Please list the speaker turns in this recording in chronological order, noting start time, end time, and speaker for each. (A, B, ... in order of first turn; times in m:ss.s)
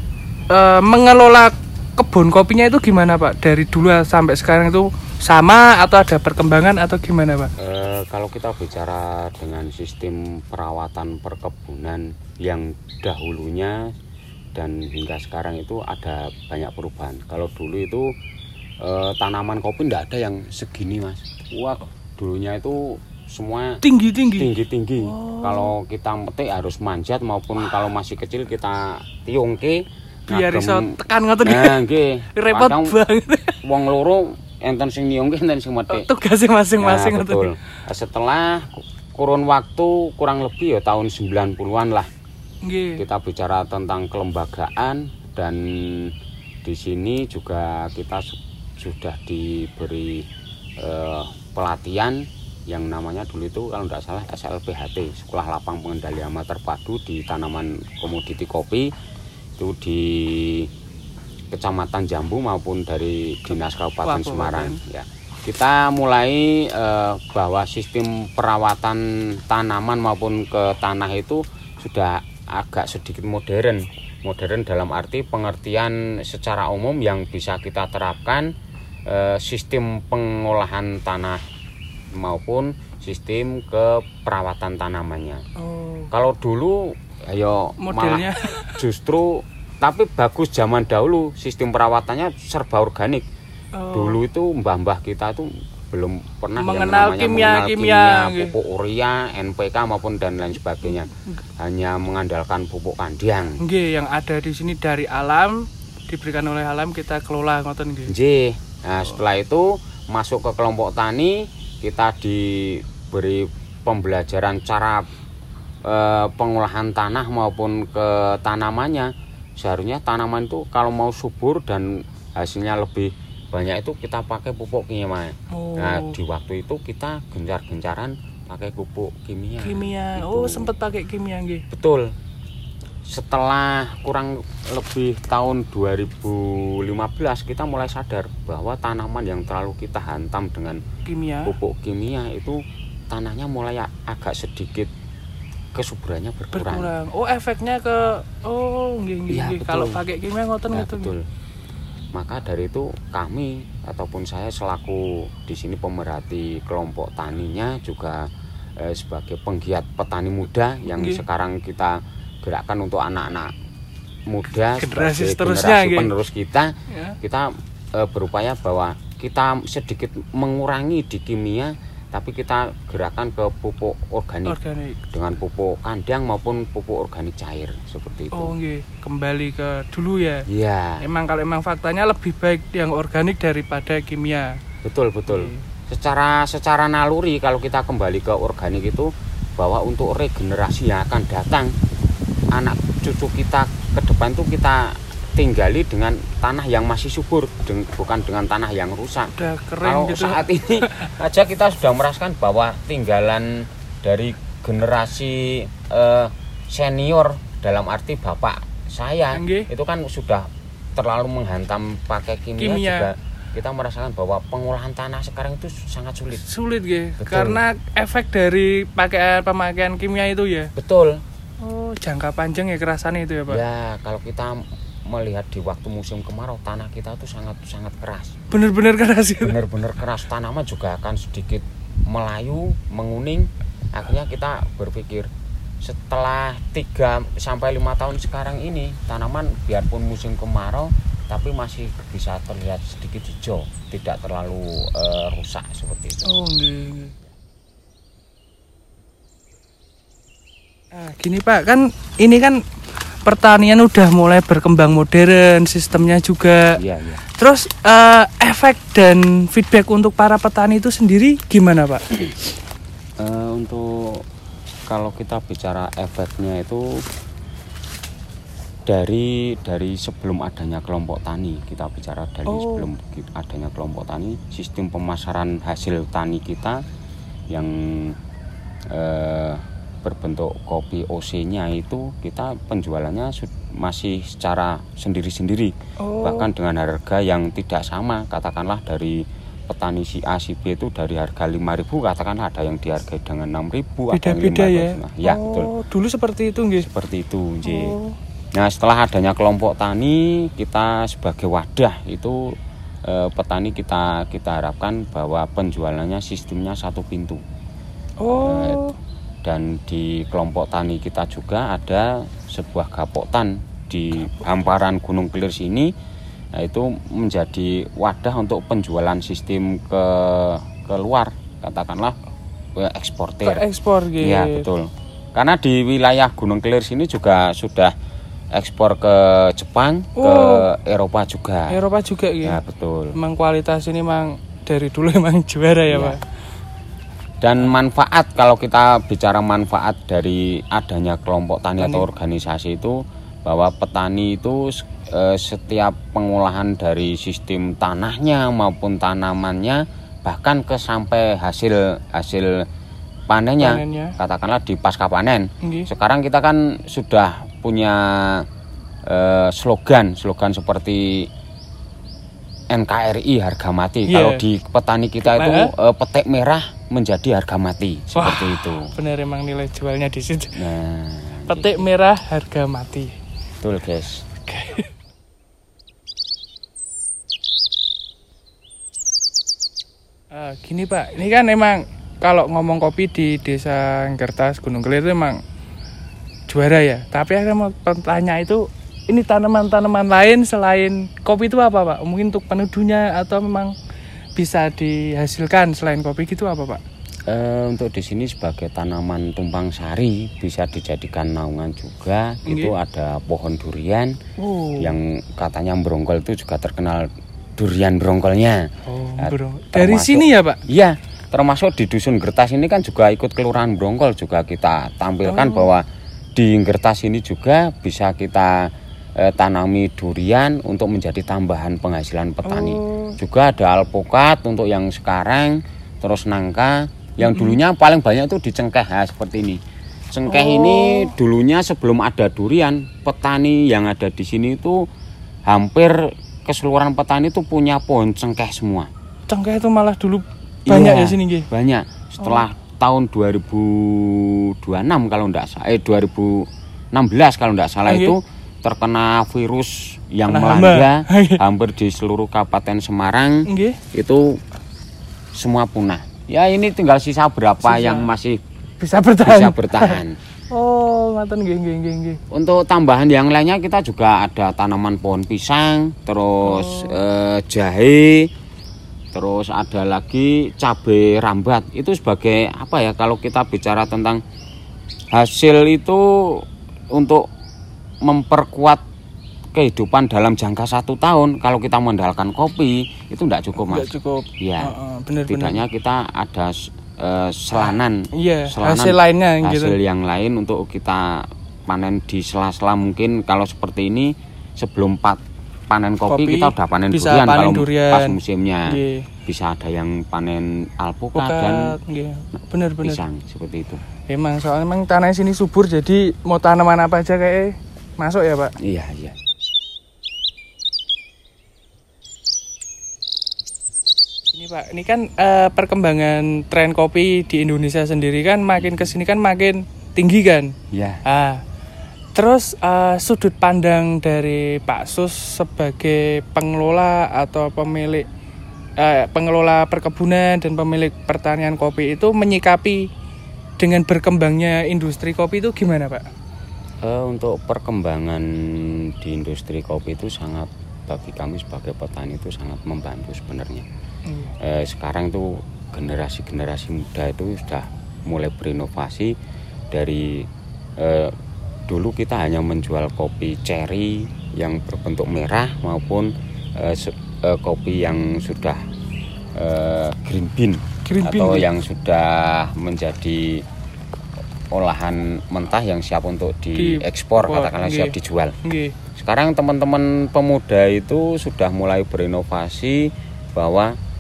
0:00.5-0:07.5 A
0:07.6-0:13.9 B
0:14.6-0:18.1 B
0:18.8-0:33.0 B
0:23.8-0:25.8 A
0:30.3-0:31.8 A
0:32.4-0:33.6 A
0:33.6-0:36.1 B
0:35.9-0:37.5 A
0:36.8-0:42.1 B
0:42.6-0:43.0 A
0:43.0-0:46.1 B
0:46.6-0:50.3 B
0:50.8-0:58.9 B
0:59.6-1:00.7 B
1:01.5-1:18.5 B
1:03.5-1:04.8 A
1:19.1-1:21.4 B
1:22.1-1:25.4 B
1:25.6-1:26.1 A
1:26.1-1:33.2 B
1:27.8-1:28.8 A
1:33.8-1:34.2 A
1:33.9-1:43.6 B
1:36.6-1:38.6 A
1:40.8-1:41.2 A
1:43.6-1:48.1 A
1:48.1-1:55.1 B
1:55.9-2:10.7 B
2:05.5-2:06.2 A
2:09.6-2:11.6 A
2:11.7-2:12.1 B
2:13.1-2:20.8 B
2:21.1-2:21.5 A
2:21.5-2:22.6 B
2:23.1-2:24.9 B
2:25.8-2:26.9 B
2:26.5-2:31.1 A
2:29.3-2:30.0 B
2:30.7-2:31.3 B
2:32.1-2:43.5 B
2:40.9-2:41.2 A
2:44.3-2:54.6 B
2:44.8-2:46.1 A
2:46.9-2:47.2 A
2:54.5-2:55.0 A
2:55.1-2:58.5 B
2:58.3-3:00.5 A
3:00.5-3:01.1 B
3:01.0-3:04.6 A
3:04.8-3:11.7 B
3:05.3-3:05.6 A
3:12.5-3:36.5 B
3:19.4-3:21.1 A
3:29.4-3:29.7 A
3:32.6-3:33.1 A
3:36.4-3:40.7 A
3:37.2-3:37.6 B
3:40.8-3:41.2 B
3:41.6-3:43.6 A
3:43.5-3:48.4 B
3:48.5-3:49.6 A
3:49.4-3:55.3 B
3:55.8-4:06.3 B
4:06.2-4:07.2 A
4:10.9-4:12.6 A
4:13.2-4:16.8 A
4:15.9-4:16.2 B
4:16.8-4:17.2 B
4:17.3-4:22.1 A
4:23.2-4:24.2 B
4:24.9-4:27.0 B
4:28.9-4:36.8 B
4:32.5-4:32.9 A
4:37.5-4:38.2 B
4:38.9-4:55.7 B
4:46.0-4:46.5 A
4:54.1-4:56.9 A
4:56.8-4:58.0 B
4:57.6-4:58.2 A
4:58.6-5:02.6 B
5:03.1-5:07.4 B
5:08.2-5:09.0 A
5:08.3-5:08.9 B
5:09.4-5:15.9 B
5:16.6-5:22.2 B
5:22.8-5:23.6 B
5:23.4-5:24.7 A
5:24.2-5:27.9 B
5:28.5-5:31.8 B
5:30.2-5:30.7 A
5:31.7-5:32.6 A
5:32.4-5:33.2 B
5:33.2-5:36.2 A
5:35.9-5:36.2 B
5:37.4-5:52.7 B
5:41.8-5:42.1 A
5:53.3-5:58.5 B
5:53.6-5:54.2 A
5:55.6-5:55.9 A
5:59.1-6:01.3 B
6:02.7-6:08.9 B
6:04.1-6:04.4 A
6:05.2-6:05.7 A
6:08.1-6:10.6 A
6:10.6-6:11.9 B
6:11.5-6:13.1 A
6:13.6-6:14.3 B
6:14.4-6:14.9 A
6:20.3-6:25.4 A
6:26.5-6:33.8 A
6:34.4-6:36.8 A
6:37.3-6:44.2 B
6:42.5-6:42.8 A
6:44.4-6:45.0 A
6:44.8-7:09.6 B
6:48.9-6:50.6 A
6:55.2-6:55.7 A
7:02.4-7:03.2 A
7:07.2-7:07.6 A
7:10.1-7:14.8 B
7:10.3-7:11.1 A
7:15.5-7:18.9 B
7:19.3-7:21.5 A
7:20.7-7:34.4 B
7:27.9-7:28.2 A
7:30.3-7:31.4 A
7:33.5-7:33.8 A
7:35.4-7:38.4 B
7:37.6-7:38.1 A
7:38.8-7:42.2 A
7:39.2-7:40.2 B
7:42.3-7:48.3 B
7:46.4-7:47.0 A
7:49.1-7:54.2 B
7:55.1-7:57.3 B
7:58.0-7:58.8 B
7:59.6-8:04.7 B
8:03.6-8:05.6 A
8:05.3-8:21.8 B
8:07.5-8:09.8 A
8:16.1-8:19.1 A
8:21.2-8:23.0 A
8:22.8-8:23.8 B
8:24.1-8:28.5 A
8:28.6-8:29.2 B
8:34.3-8:41.4 A
8:38.6-8:38.9 B
8:40.7-8:41.0 B
8:42.2-8:48.1 A
8:48.8-8:52.9 A
8:53.6-8:56.1 A
8:56.8-9:03.7 B
9:04.1-9:04.3 A
9:04.4-9:09.1 B
9:09.7-9:11.1 B
9:11.7-9:18.7 B
9:19.4-9:23.4 B
9:20.8-9:21.5 A
9:24.5-9:28.4 B
9:26.6-9:28.8 A
9:29.0-9:33.7 B